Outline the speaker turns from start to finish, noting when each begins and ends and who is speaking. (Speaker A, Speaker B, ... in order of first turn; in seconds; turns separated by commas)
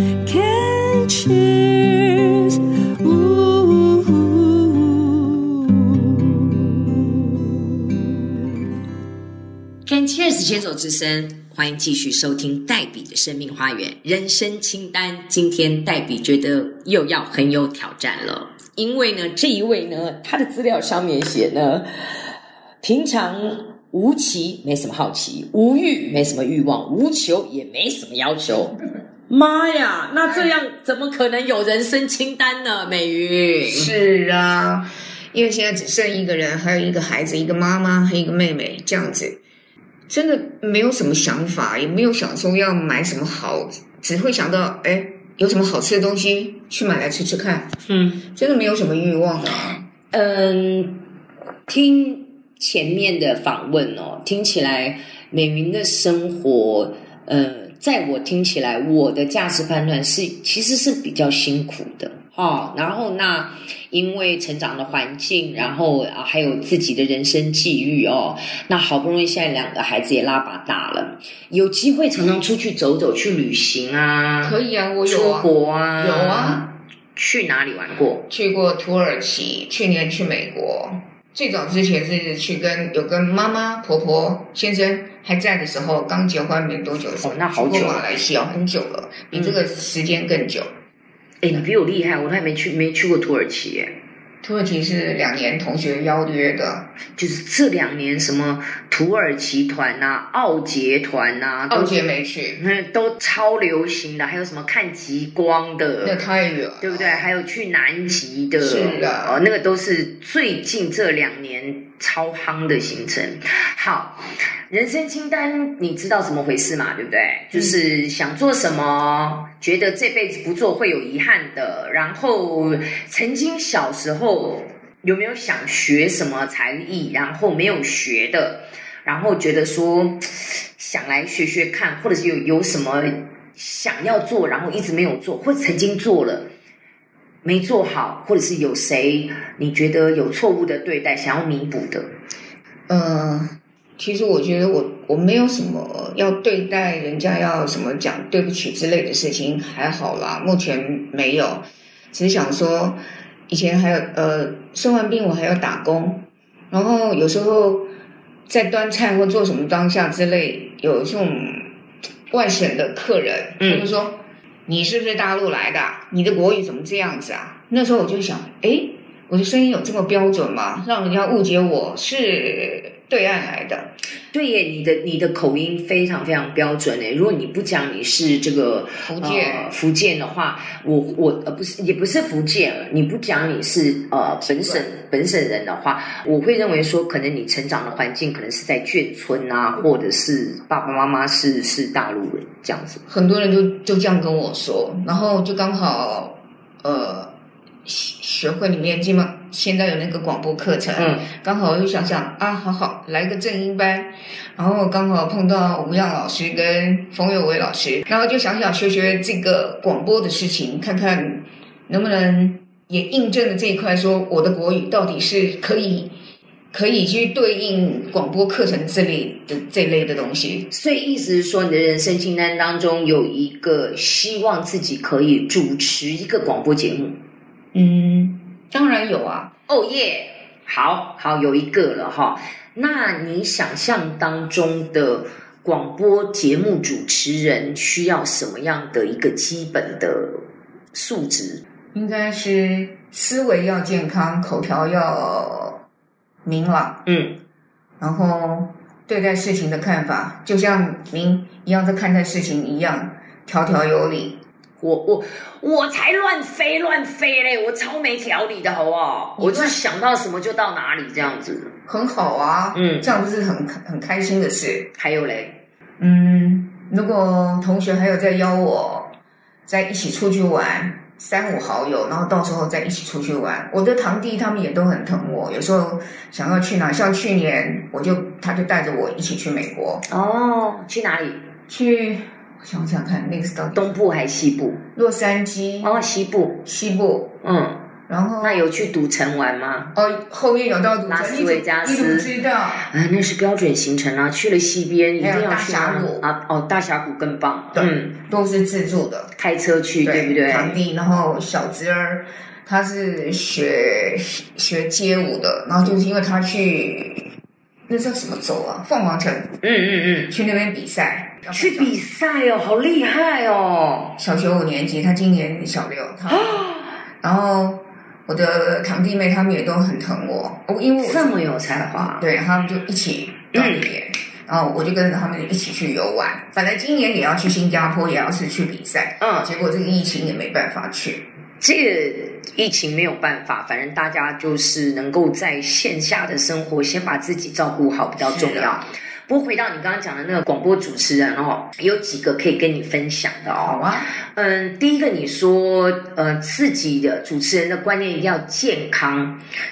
Speaker A: 0.2-5.0, Speaker B: 9.9-21.9, Speaker B: 22.8-33.9, Speaker C: 33.7-39.4, Speaker C: 40.1-47.7, Speaker B: 47.9-48.2, Speaker C: 48.3-49.8, Speaker B: 50.1-51.0, Speaker B: 51.7-78.3, Speaker C: 74.4-76.7, Speaker C: 78.3-90.7, Speaker B: 87.2-88.1, Speaker B: 89.3-89.6, Speaker B: 91.4-94.0, Speaker C: 94.4-96.9, Speaker B: 97.2-102.0, Speaker C: 101.7-102.6, Speaker B: 102.6-106.2, Speaker C: 106.0-107.2, Speaker B: 106.8-136.5, Speaker C: 108.6-109.4, Speaker B: 137.4-142.1, Speaker C: 142.9-157.9, Speaker C: 158.5-161.7, Speaker C: 162.3-173.9, Speaker B: 163.6-163.9, Speaker B: 174.3-193.0, Speaker C: 179.1-179.7, Speaker C: 184.6-184.9, Speaker C: 193.1-197.3, Speaker C: 197.8-216.2, Speaker B: 201.0-201.3, Speaker C: 216.7-220.7, Speaker B: 220.7-227.2, Speaker C: 227.7-229.5, Speaker B: 229.7-240.4, Speaker B: 240.9-241.6, Speaker C: 241.9-245.8, Speaker C: 246.4-247.0, Speaker B: 247.1-247.4, Speaker C: 248.0-254.4, Speaker B: 254.8-261.7, Speaker C: 259.4-259.8, Speaker C: 261.9-264.9, Speaker B: 262.7-263.1, Speaker B: 265.0-265.6, Speaker C: 266.0-269.1, Speaker C: 269.7-280.1, Speaker B: 280.1-281.4, Speaker C: 281.7-283.9, Speaker B: 283.8-284.8, Speaker C: 284.9-286.0, Speaker B: 285.8-286.6, Speaker C: 286.6-287.3, Speaker B: 287.4-287.9, Speaker C: 288.1-288.6, Speaker B: 288.4-289.9, Speaker C: 289.9-292.9, Speaker B: 291.1-298.2, Speaker C: 295.2-296.3, Speaker C: 297.7-299.3, Speaker B: 299.4-300.8, Speaker C: 300.0-307.3, Speaker C: 307.9-309.5, Speaker B: 309.6-310.4, Speaker C: 310.3-311.9, Speaker B: 311.5-314.2, Speaker C: 314.2-316.6, Speaker B: 316.3-317.0, Speaker C: 317.2-331.2, Speaker B: 321.0-322.3, Speaker B: 323.5-323.9, Speaker B: 329.2-329.5, Speaker B: 331.6-349.4, Speaker C: 338.2-338.8, Speaker C: 343.6-344.1